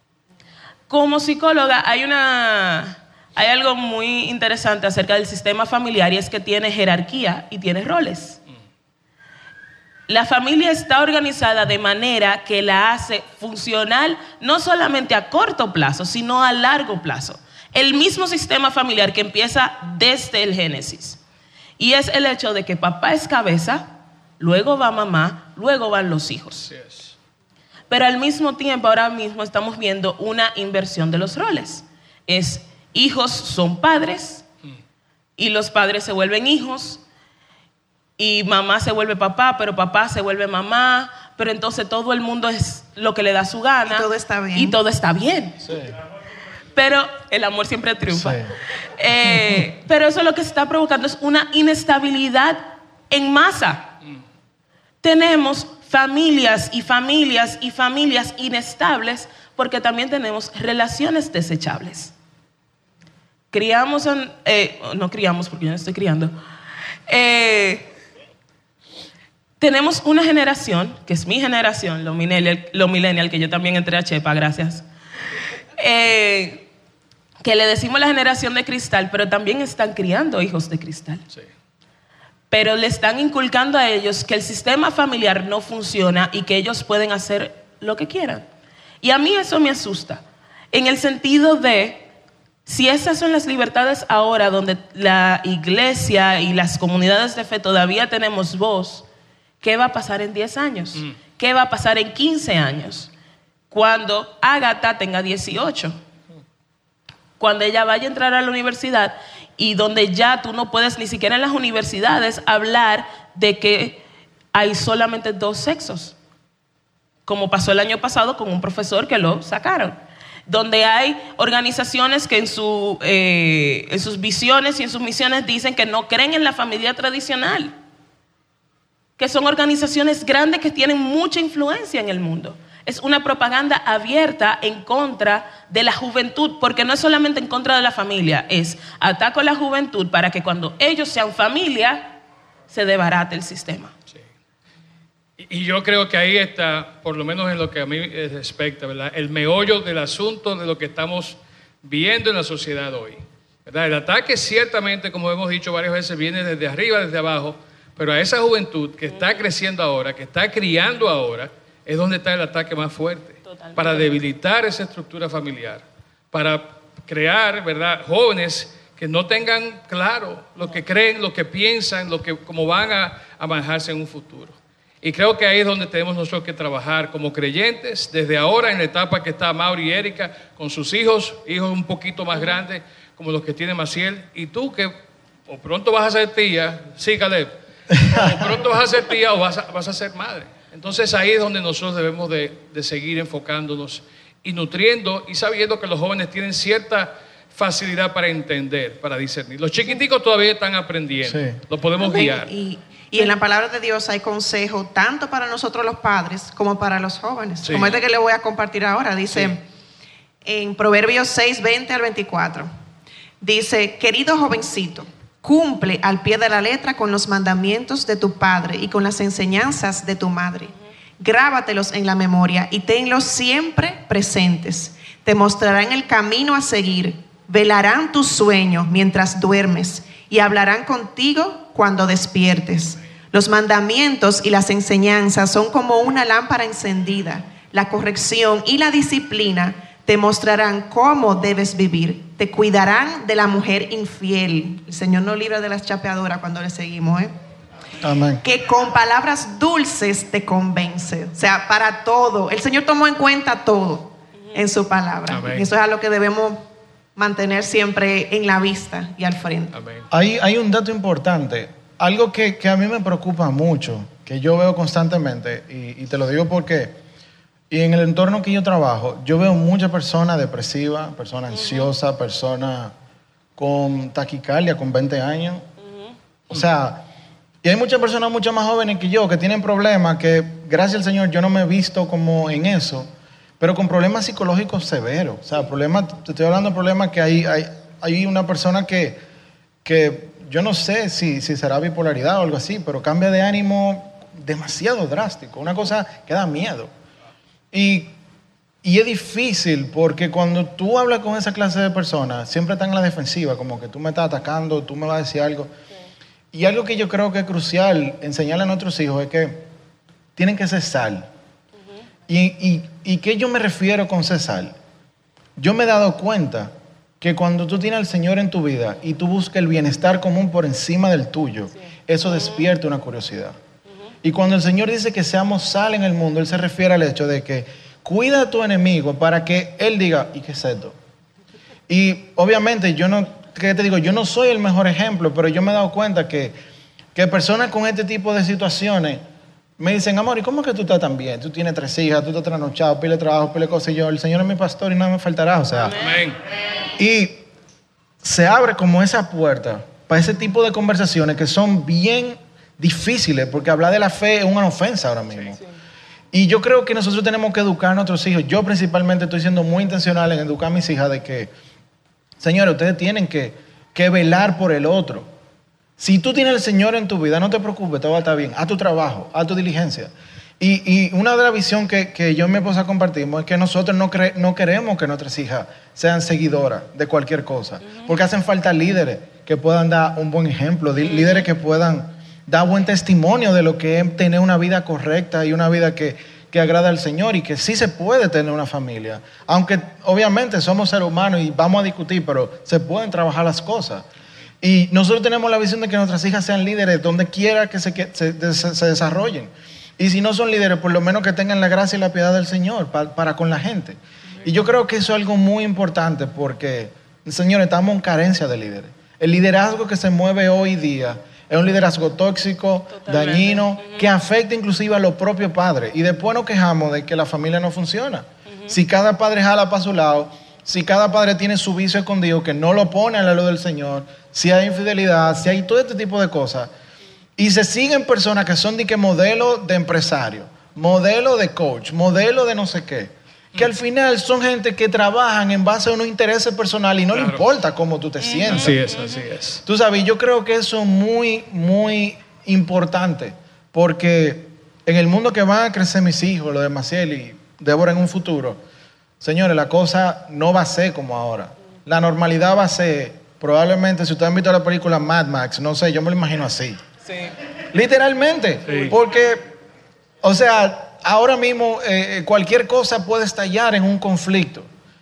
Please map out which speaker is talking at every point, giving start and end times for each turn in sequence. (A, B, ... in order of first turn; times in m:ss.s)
0:00.9-0:08.4 A
0:10.1-0:21.2 A
0:21.8-0:26.7 A
0:26.7-0:27.1 B
0:27.9-0:34.4 A
0:35.4-0:37.0 A
0:38.2-0:45.6 A
0:43.8-0:44.8 C
0:45.6-0:45.9 D
0:46.7-0:48.4 A
0:48.1-0:48.5 D
0:49.0-0:54.0 A
0:55.0-1:02.1 A
1:03.5-1:06.3 A
1:07.1-1:07.9 A
1:09.6-1:14.8 A
1:15.8-1:16.7 A
1:17.4-1:21.2 A
1:22.5-1:28.4 A
1:29.0-1:32.1 A
1:32.6-1:39.0 A
1:39.6-1:43.1 A
1:43.7-1:46.0 A
1:47.4-1:54.0 A
1:54.5-1:56.2 A
1:57.2-2:07.7 A
2:09.2-2:23.9 A
2:25.4-3:04.9 B
2:43.5-2:44.1 A
3:05.5-3:22.5 B
3:08.0-3:08.3 D
3:21.2-3:21.6 D
3:22.0-3:29.6 C
3:27.6-3:28.0 B
3:29.3-3:29.6 B
3:30.4-3:32.7 C
3:33.4-4:07.3 C
4:08.0-4:08.4 D
4:08.4-4:19.7 C
4:15.3-4:15.7 B
4:19.7-4:20.1 B
4:20.1-4:27.0 D
4:27.7-4:32.9 D
4:33.6-4:35.6 D
4:35.8-4:36.1 A
4:36.5-4:37.0 D
4:37.6-4:43.1 D
4:43.6-4:49.2 D
4:49.8-4:56.9 D
4:57.7-4:58.1 D
4:58.8-5:05.7 D
5:06.5-5:09.6 D
5:10.4-5:11.3 D
5:12.3-5:14.8 D
5:15.6-5:23.6 D
5:24.2-5:31.0 D
5:31.9-5:36.5 D
5:37.1-5:39.2 D
5:39.8-5:46.0 D
5:46.0-5:46.4 B
5:47.0-5:47.4 D
5:48.2-5:55.6 D
5:56.3-6:01.5 D
6:02.4-6:05.3 D
6:06.0-6:34.0 D
6:34.6-7:06.7 D
6:52.9-6:54.1 A
7:07.4-7:18.8 D
7:17.1-7:17.4 B
7:18.2-7:19.2 A
7:18.5-7:19.6 B
7:19.6-7:28.6 D
7:29.2-7:36.8 D
7:37.7-7:39.4 D
7:38.7-7:38.9 B
7:40.2-7:44.7 D